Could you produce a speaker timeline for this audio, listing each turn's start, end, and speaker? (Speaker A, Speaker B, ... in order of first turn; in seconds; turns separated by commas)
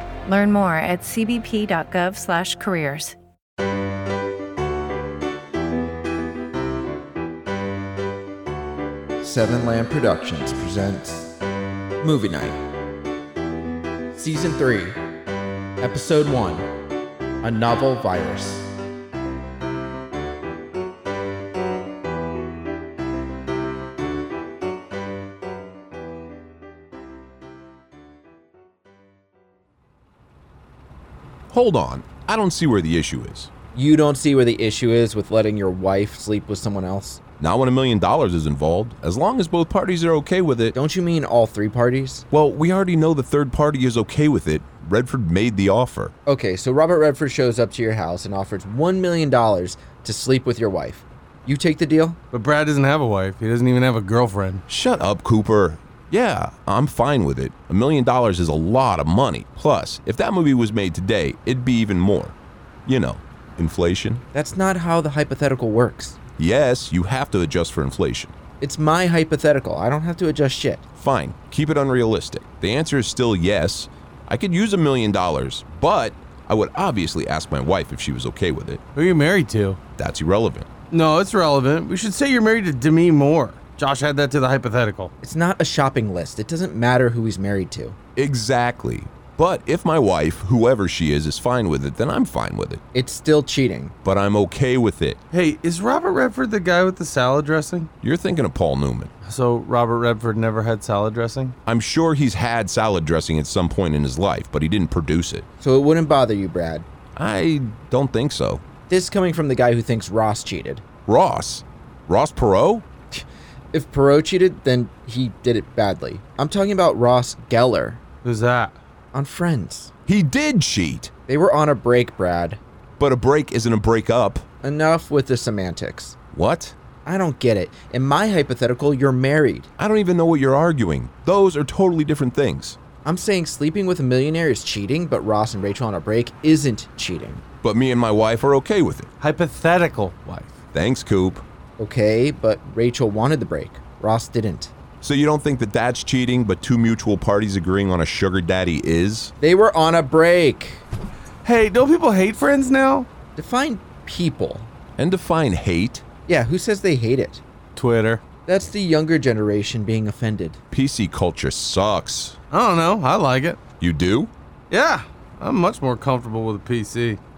Speaker A: 0.2-3.2, Speaker B: 9.2-11.3, Speaker B: 12.0-12.6, Speaker B: 14.1-15.0, Speaker B: 15.8-16.7, Speaker B: 17.4-18.7, Speaker C: 31.5-33.5, Speaker B: 33.7-37.2, Speaker C: 37.4-40.8, Speaker B: 40.7-42.2, Speaker C: 42.3-46.1, Speaker B: 46.2-52.2, Speaker D: 52.3-54.6, Speaker C: 54.7-62.3, Speaker C: 62.9-64.2, Speaker B: 64.3-66.2, Speaker C: 66.4-68.3, Speaker B: 68.6-70.8, Speaker C: 71.0-78.8, Speaker D: 78.9-79.8, Speaker C: 80.0-80.7, Speaker D: 80.9-85.1, Speaker B: 85.2-88.0, Speaker C: 88.2-92.8, Speaker B: 92.9-93.9, Speaker C: 94.0-95.2, Speaker D: 95.3-97.9, Speaker C: 98.0-99.1, Speaker D: 99.2-101.5, Speaker C: 101.7-105.5, Speaker B: 105.6-106.8, Speaker C: 107.2-108.6, Speaker B: 108.9-110.8, Speaker C: 111.1-112.8, Speaker B: 113.1-118.0, Speaker D: 118.2-118.8, Speaker B: 119.1-119.9, Speaker C: 120.1-121.1, Speaker B: 121.3-122.6, Speaker C: 123.0-124.4, Speaker B: 124.6-126.2, Speaker C: 126.3-126.8, Speaker B: 127.0-129.7, Speaker C: 129.8-132.8, Speaker B: 133.0-137.4, Speaker C: 137.6-139.1, Speaker D: 139.2-140.6, Speaker C: 140.7-141.4, Speaker B: 141.8-144.7, Speaker C: 145.0-149.3, Speaker B: 149.4-150.8, Speaker D: 151.4-153.1, Speaker B: 153.3-154.7, Speaker C: 155.0-156.0, Speaker B: 156.3-157.4, Speaker D: 157.8-158.2, Speaker B: 158.4-160.6, Speaker C: 160.7-162.4, Speaker D: 162.5-163.6, Speaker C: 163.8-164.3, Speaker D: 164.7-167.2